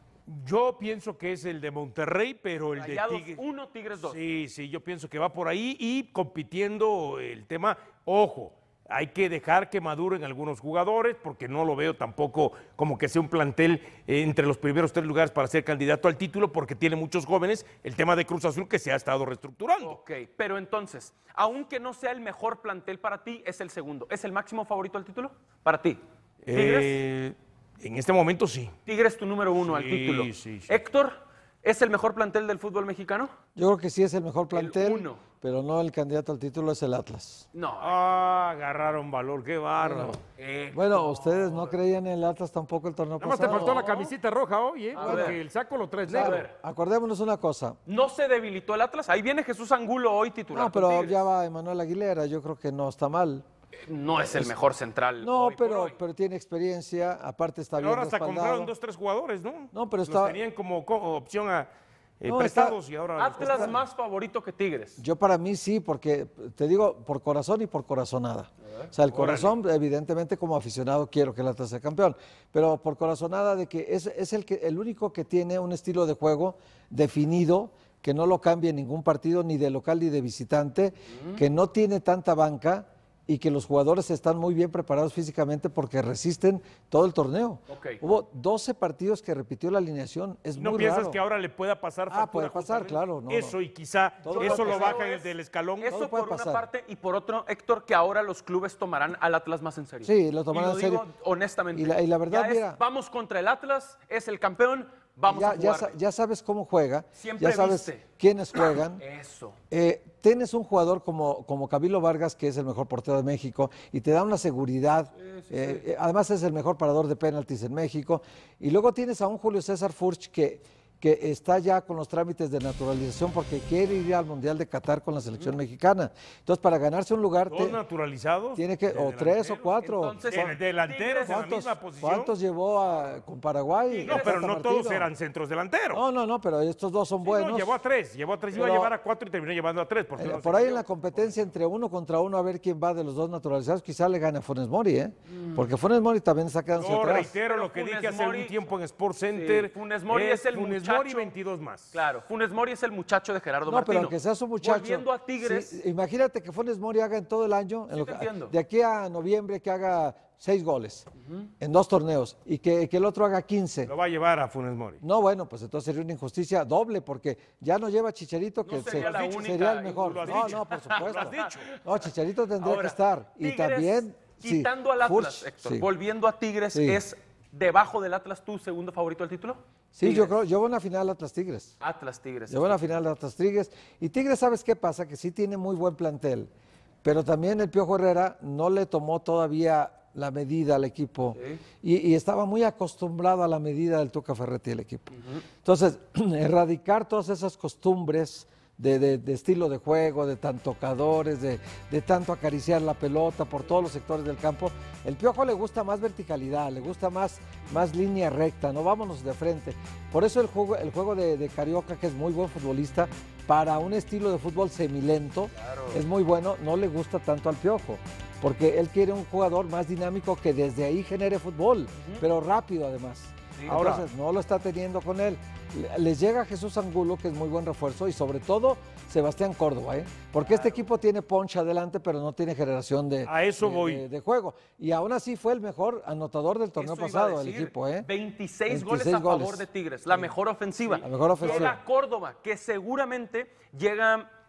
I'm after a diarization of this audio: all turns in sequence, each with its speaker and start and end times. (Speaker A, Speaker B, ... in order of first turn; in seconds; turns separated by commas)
Speaker A: 0.3-3.4, Speaker B: 2.8-4.2, Speaker A: 4.0-20.0, Speaker B: 19.8-26.0, Speaker A: 26.4-28.7, Speaker B: 26.5-27.0, Speaker B: 28.9-33.3, Speaker A: 29.6-30.8, Speaker C: 33.5-37.5, Speaker B: 34.5-35.2, Speaker B: 37.5-38.0, Speaker A: 37.8-40.2, Speaker C: 39.8-40.2, Speaker B: 40.4-41.8, Speaker C: 40.7-43.9, Speaker A: 43.2-46.4, Speaker B: 43.4-44.1, Speaker B: 44.9-45.4, Speaker C: 45.0-45.4, Speaker B: 46.1-46.5, Speaker C: 46.1-47.8, Speaker B: 47.9-51.2, Speaker C: 50.5-53.4, Speaker B: 53.9-56.0, Speaker C: 54.2-54.5, Speaker C: 55.2-58.7, Speaker A: 57.8-61.7, Speaker C: 59.7-60.4, Speaker A: 62.2-63.8, Speaker C: 62.3-62.8, Speaker B: 63.2-65.0, Speaker C: 63.4-63.8, Speaker C: 65.0-91.2, Speaker A: 69.1-69.6, Speaker B: 81.1-81.4, Speaker B: 87.7-88.0, Speaker A: 90.6-96.0, Speaker C: 92.1-93.6, Speaker C: 94.2-95.0, Speaker B: 94.3-106.0, Speaker C: 95.9-96.7, Speaker C: 100.0-101.1, Speaker C: 101.7-102.8, Speaker C: 105.3-109.0, Speaker B: 107.2-108.0, Speaker B: 109.0-109.6, Speaker C: 109.7-127.8, Speaker B: 115.2-115.8, Speaker A: 127.5-132.3, Speaker C: 128.6-130.6, Speaker B: 129.8-131.4, Speaker C: 131.2-135.1, Speaker B: 133.9-134.4, Speaker A: 134.1-136.0, Speaker C: 135.9-137.8, Speaker A: 137.2-141.5, Speaker C: 138.5-138.9, Speaker C: 140.2-147.3, Speaker A: 146.7-151.9, Speaker B: 147.0-148.7, Speaker B: 149.3-151.3, Speaker B: 151.9-155.8, Speaker C: 153.7-161.1, Speaker B: 157.9-158.5, Speaker C: 161.6-163.9, Speaker A: 163.9-165.0, Speaker C: 165.0-175.9, Speaker B: 168.6-171.6, Speaker A: 168.8-171.7, Speaker B: 172.6-180.4, Speaker C: 176.7-177.0, Speaker C: 179.9-181.7, Speaker B: 181.8-183.0, Speaker C: 182.5-186.5, Speaker C: 187.0-238.1, Speaker B: 191.3-191.6, Speaker B: 215.6-216.0, Speaker B: 222.0-222.2, Speaker A: 223.7-224.1, Speaker B: 230.4-230.8, Speaker A: 233.2-234.0, Speaker B: 236.8-244.3, Speaker C: 238.7-240.3, Speaker C: 240.9-241.8